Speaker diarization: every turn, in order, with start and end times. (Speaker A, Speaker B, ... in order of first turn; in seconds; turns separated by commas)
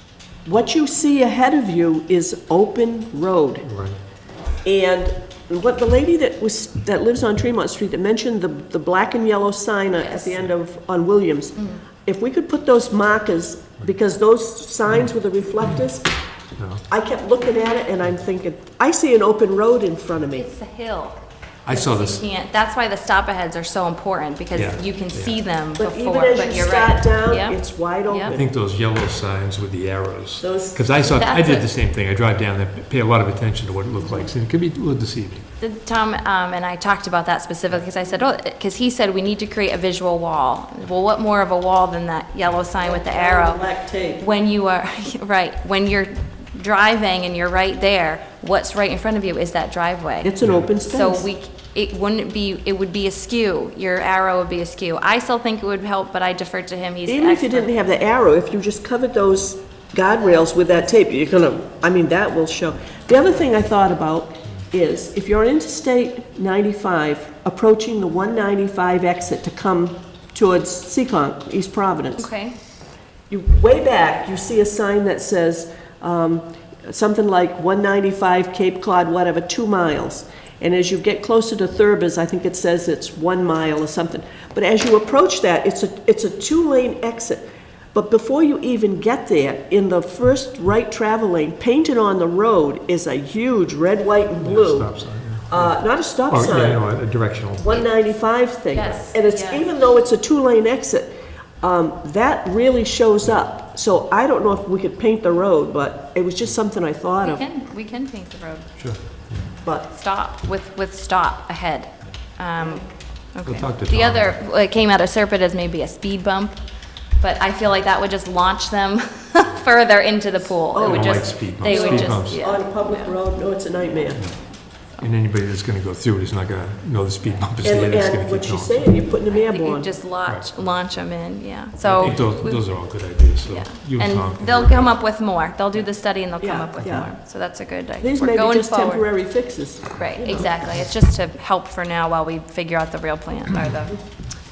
Speaker A: 0.5-3.7, Speaker B: 3.6-4.0, Speaker A: 4.6-16.1, Speaker C: 10.0-10.3, Speaker B: 16.6-16.8, Speaker A: 16.9-20.4, Speaker C: 20.3-28.4, Speaker B: 21.6-22.2, Speaker B: 24.5-25.4, Speaker A: 25.8-28.4, Speaker B: 28.3-35.5, Speaker A: 30.4-31.0, Speaker C: 31.0-31.7, Speaker A: 34.0-34.3, Speaker C: 35.6-43.6, Speaker A: 42.8-44.2, Speaker C: 44.2-50.3, Speaker A: 50.2-51.2, Speaker B: 50.4-50.7, Speaker C: 50.8-57.7, Speaker A: 57.0-72.3, Speaker C: 72.2-72.5, Speaker A: 73.3-94.9, Speaker B: 94.4-97.8, Speaker A: 95.5-96.8, Speaker A: 97.5-101.1, Speaker C: 98.7-99.7, Speaker A: 101.6-107.4, Speaker C: 107.2-108.7, Speaker B: 108.8-109.5, Speaker C: 109.9-116.6, Speaker A: 112.6-112.8, Speaker B: 113.4-114.4, Speaker C: 117.2-123.1, Speaker A: 120.7-124.2, Speaker B: 120.8-122.4, Speaker B: 124.2-129.0, Speaker A: 127.6-129.9, Speaker C: 129.3-139.1, Speaker B: 130.2-130.5, Speaker B: 131.8-134.9, Speaker A: 136.4-137.1, Speaker A: 138.0-140.6, Speaker C: 139.9-144.0